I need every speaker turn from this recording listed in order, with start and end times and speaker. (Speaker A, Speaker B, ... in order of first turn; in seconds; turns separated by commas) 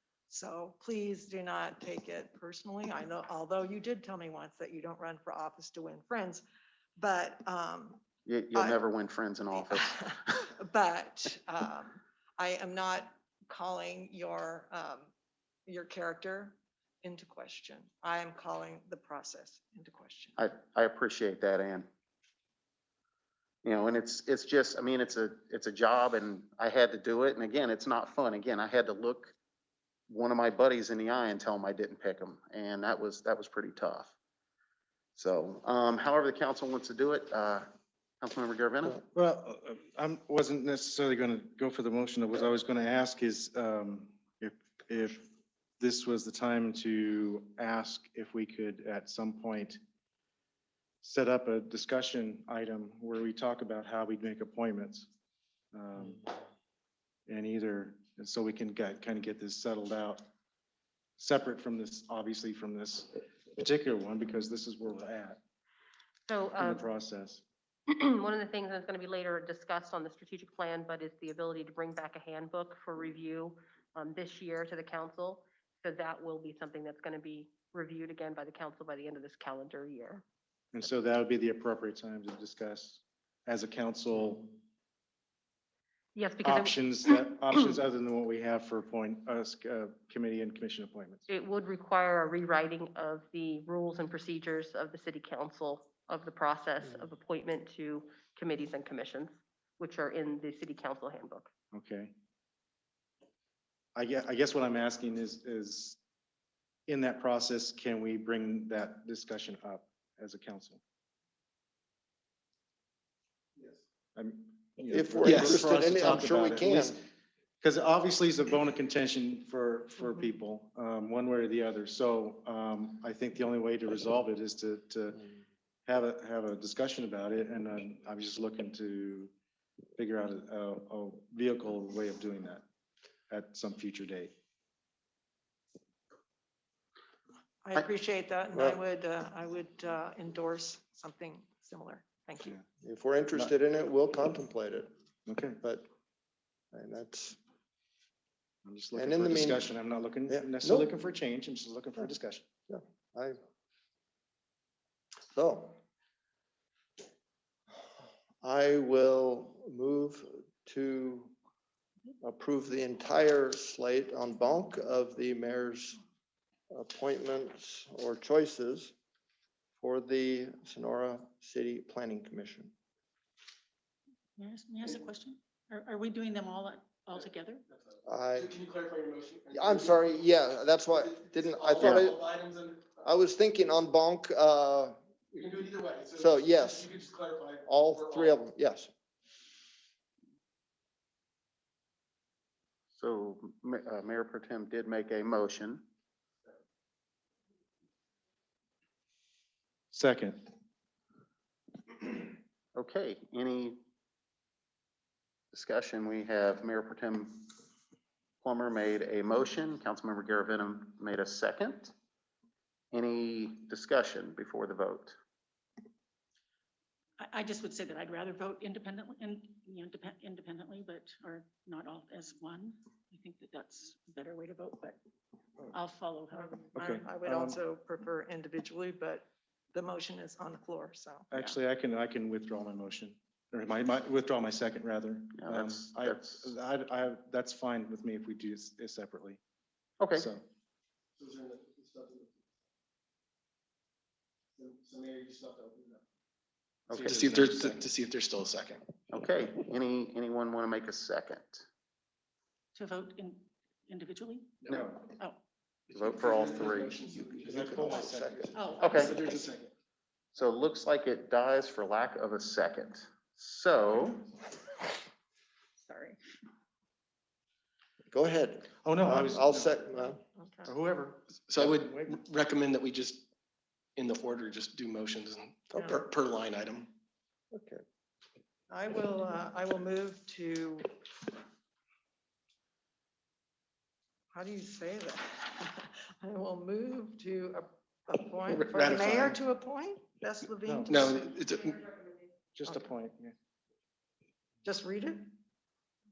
Speaker A: 0.3-6.4, Speaker A: 7.0-8.0, Speaker B: 8.3-10.2, Speaker A: 8.5-8.8, Speaker A: 9.5-15.1, Speaker A: 15.7-20.4, Speaker B: 20.4-21.9, Speaker B: 23.6-29.3, Speaker B: 30.1-34.1, Speaker B: 35.2-37.7, Speaker B: 38.2-39.0, Speaker C: 39.1-45.2, Speaker C: 45.8-49.8, Speaker C: 51.0-55.1, Speaker C: 55.7-56.2, Speaker C: 57.3-60.3, Speaker C: 61.2-65.4, Speaker D: 66.3-66.8, Speaker C: 66.6-67.4, Speaker D: 67.9-80.2, Speaker C: 80.7-84.5, Speaker D: 86.2-86.9, Speaker C: 86.4-91.2, Speaker D: 91.3-101.5, Speaker C: 101.7-102.1, Speaker C: 104.0-106.0, Speaker C: 106.9-110.8, Speaker C: 114.2-117.0, Speaker E: 114.9-117.0, Speaker F: 115.2-115.6, Speaker C: 117.6-125.2, Speaker C: 125.9-129.3, Speaker C: 130.0-132.6, Speaker C: 133.3-134.3, Speaker A: 137.6-142.6, Speaker E: 138.5-138.8, Speaker E: 142.8-144.9, Speaker C: 145.3-145.6, Speaker E: 145.6-145.9, Speaker E: 146.7-147.4, Speaker C: 148.7-152.5, Speaker E: 148.9-149.7, Speaker E: 150.3-150.9, Speaker E: 152.7-153.4, Speaker E: 155.3-155.8, Speaker E: 158.4-161.3, Speaker E: 162.2-166.0, Speaker E: 166.7-168.9, Speaker E: 169.8-172.7, Speaker G: 174.4-177.6, Speaker F: 177.7-180.2, Speaker E: 178.1-178.6, Speaker E: 179.5-182.2, Speaker F: 180.9-183.0, Speaker E: 183.0-185.0, Speaker F: 185.3-188.4, Speaker E: 186.2-186.9, Speaker E: 187.7-188.9, Speaker B: 192.9-195.8, Speaker C: 199.9-200.5, Speaker B: 202.8-203.8, Speaker B: 205.5-207.4, Speaker B: 208.4-211.9, Speaker B: 212.9-215.2, Speaker G: 217.2-225.0, Speaker G: 225.7-226.7, Speaker A: 226.3-231.6, Speaker C: 226.8-227.6, Speaker C: 231.3-239.4, Speaker B: 235.4-236.4, Speaker B: 240.0-240.3, Speaker C: 240.1-240.4, Speaker F: 241.2-242.4, Speaker F: 244.6-246.0, Speaker B: 246.9-247.7, Speaker C: 246.9-247.6, Speaker F: 246.9-248.9, Speaker B: 249.1-251.7, Speaker G: 252.8-254.6, Speaker C: 254.7-255.1, Speaker F: 255.9-257.9, Speaker B: 255.9-257.0, Speaker E: 257.3-258.7, Speaker C: 257.5-258.4, Speaker A: 258.6-259.0, Speaker B: 258.8-259.2, Speaker F: 258.9-259.7, Speaker B: 260.4-264.3, Speaker E: 268.1-270.2, Speaker C: 268.8-269.8, Speaker A: 270.0-270.7, Speaker C: 270.7-272.1, Speaker F: 271.5-273.3, Speaker F: 274.0-276.9, Speaker E: 275.7-276.0, Speaker E: 277.5-277.8, Speaker A: 278.7-281.3, Speaker A: 284.3-291.2, Speaker F: 288.5-289.4, Speaker C: 290.7-291.1, Speaker F: 290.9-292.0, Speaker C: 292.6-293.4, Speaker A: 294.6-295.3